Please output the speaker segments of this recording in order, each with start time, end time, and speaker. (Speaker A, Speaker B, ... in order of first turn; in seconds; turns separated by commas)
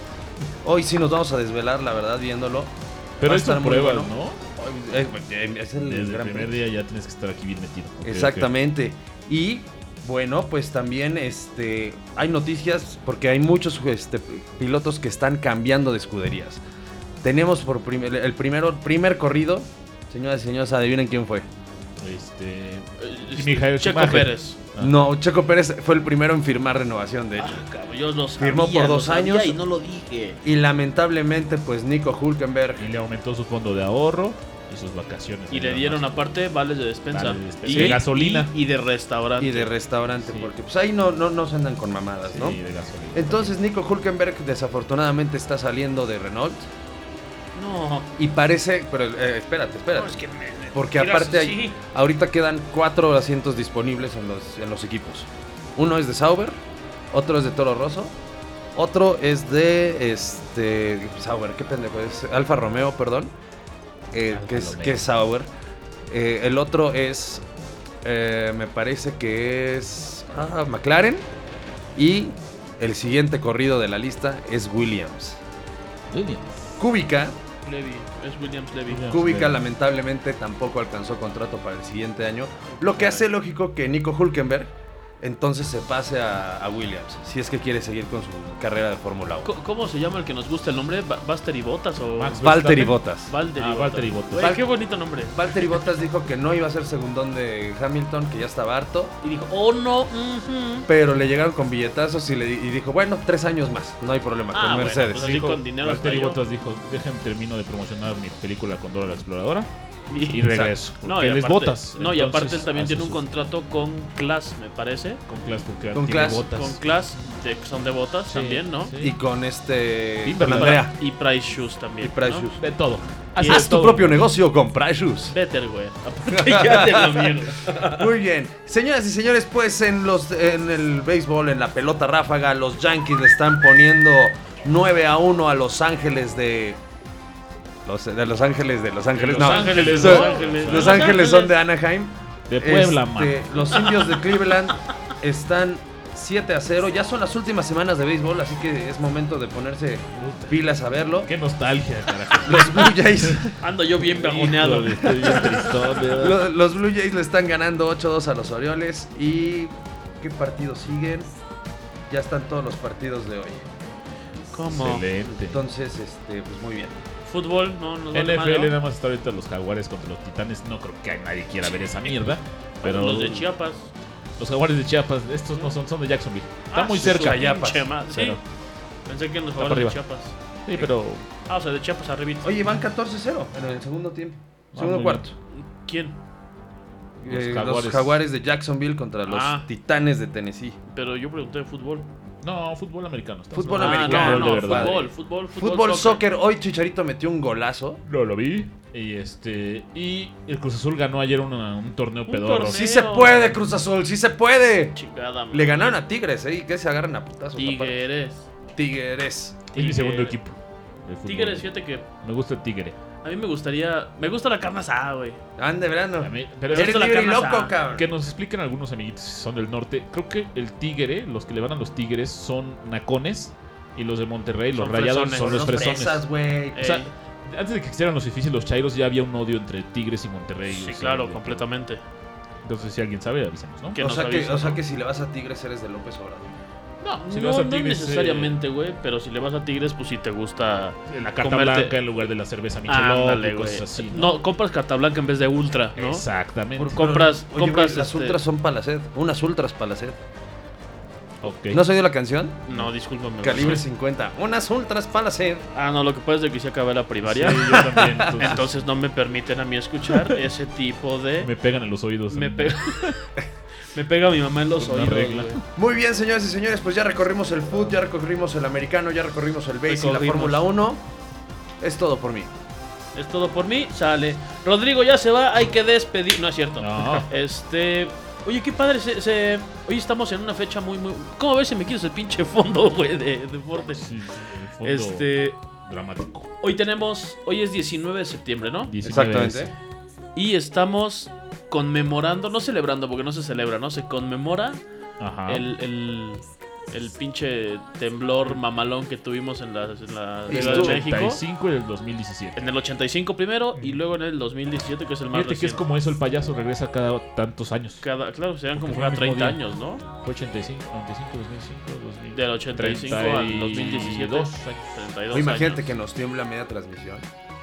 Speaker A: 0.6-6.6, Speaker B: 3.2-4.4, Speaker B: 5.8-8.5, Speaker A: 8.0-16.6, Speaker A: 17.2-21.5, Speaker B: 22.0-24.9, Speaker C: 23.0-24.6, Speaker A: 24.8-27.6, Speaker C: 27.4-30.4, Speaker A: 28.4-29.6, Speaker A: 30.4-32.8, Speaker B: 32.8-36.1, Speaker C: 35.5-39.7, Speaker B: 37.1-38.5, Speaker A: 37.7-38.0, Speaker A: 39.4-42.6, Speaker B: 40.2-40.5, Speaker B: 42.2-43.5, Speaker A: 43.1-46.7, Speaker C: 47.5-48.1, Speaker A: 48.2-50.2, Speaker C: 49.9-51.8, Speaker A: 50.7-56.6, Speaker A: 57.1-58.1, Speaker A: 58.7-63.3, Speaker A: 64.1-65.5, Speaker B: 64.3-65.0, Speaker A: 66.1-67.4, Speaker A: 68.0-71.2, Speaker A: 72.0-75.4, Speaker B: 76.1-76.5, Speaker A: 76.8-77.3, Speaker C: 77.6-79.0, Speaker B: 78.9-79.6, Speaker A: 79.1-89.5, Speaker C: 82.7-83.1, Speaker C: 89.4-92.4, Speaker B: 92.2-93.0, Speaker A: 92.4-93.3, Speaker C: 93.3-95.8, Speaker B: 93.5-94.5, Speaker A: 94.4-94.6, Speaker A: 95.3-99.1, Speaker C: 99.2-100.9, Speaker A: 100.9-105.4, Speaker C: 104.5-106.4, Speaker B: 105.1-109.7, Speaker C: 110.1-110.4, Speaker B: 110.3-113.2, Speaker A: 110.5-110.7, Speaker C: 111.0-115.2, Speaker B: 115.3-116.8, Speaker A: 115.9-116.5, Speaker C: 116.5-118.9, Speaker B: 118.3-119.2, Speaker A: 119.0-120.9, Speaker B: 120.2-120.9, Speaker C: 120.5-122.5, Speaker A: 122.0-122.6, Speaker B: 122.6-124.2, Speaker A: 123.4-125.3, Speaker C: 125.3-128.1, Speaker A: 126.3-136.8, Speaker A: 137.8-151.3, Speaker B: 139.1-141.2, Speaker C: 139.2-141.5, Speaker B: 142.5-143.5, Speaker C: 143.8-144.2, Speaker B: 150.1-150.6, Speaker B: 151.2-156.4, Speaker A: 152.4-153.5, Speaker C: 153.6-155.7, Speaker A: 155.2-161.3, Speaker A: 162.1-163.7, Speaker C: 164.5-165.0, Speaker B: 164.7-165.6, Speaker A: 165.3-167.0, Speaker C: 167.2-168.8, Speaker B: 168.1-173.4, Speaker C: 171.6-172.2, Speaker C: 172.8-173.9, Speaker B: 174.4-178.4, Speaker C: 176.7-178.4, Speaker A: 177.0-177.9, Speaker C: 179.1-180.3, Speaker B: 179.6-180.0, Speaker B: 180.7-181.2, Speaker C: 181.5-182.6, Speaker A: 182.4-185.3, Speaker B: 184.7-185.2, Speaker C: 185.6-186.2, Speaker A: 187.2-190.8, Speaker B: 187.2-188.1, Speaker C: 189.3-189.7, Speaker C: 190.9-192.1, Speaker B: 192.4-195.0, Speaker A: 193.5-198.0, Speaker C: 193.8-196.2, Speaker B: 198.1-202.8, Speaker C: 202.3-203.4, Speaker A: 202.7-205.0, Speaker C: 204.9-206.0, Speaker A: 205.5-208.0, Speaker C: 207.6-208.5, Speaker A: 208.7-209.6, Speaker C: 209.7-210.4, Speaker B: 209.7-212.9, Speaker C: 211.2-212.1, Speaker C: 213.2-215.4, Speaker A: 215.6-218.1, Speaker B: 216.2-217.1, Speaker C: 216.7-217.8, Speaker B: 217.9-231.6, Speaker C: 224.7-225.8, Speaker A: 225.3-226.8, Speaker C: 226.7-227.1, Speaker C: 230.7-232.0, Speaker B: 232.6-234.0, Speaker C: 233.9-234.8, Speaker A: 233.9-236.5, Speaker B: 237.0-238.6, Speaker C: 237.2-241.9, Speaker B: 241.1-244.3, Speaker C: 242.9-246.2, Speaker B: 245.9-247.0, Speaker A: 246.8-250.2, Speaker C: 246.9-248.4, Speaker B: 251.4-251.8, Speaker A: 251.7-252.7, Speaker C: 252.7-253.8, Speaker A: 253.4-255.6, Speaker C: 255.7-261.5, Speaker B: 257.3-258.7, Speaker A: 257.8-258.5, Speaker B: 261.4-263.2, Speaker C: 262.3-263.0, Speaker C: 263.9-265.6, Speaker B: 264.8-265.6, Speaker A: 265.8-271.0, Speaker C: 269.9-270.7, Speaker A: 271.8-272.5, Speaker C: 273.1-284.1, Speaker B: 276.8-277.3, Speaker B: 283.9-286.5, Speaker C: 284.8-285.6, Speaker C: 286.6-288.9, Speaker B: 288.9-289.7, Speaker A: 289.0-289.7, Speaker C: 290.3-294.8, Speaker B: 295.2-295.6, Speaker C: 295.5-301.4, Speaker A: 300.5-301.1, Speaker B: 300.5-302.6, Speaker C: 302.6-305.8, Speaker B: 305.3-308.0, Speaker C: 308.0-310.0, Speaker B: 308.8-309.6, Speaker B: 310.2-314.8, Speaker C: 312.3-315.9, Speaker A: 315.3-317.2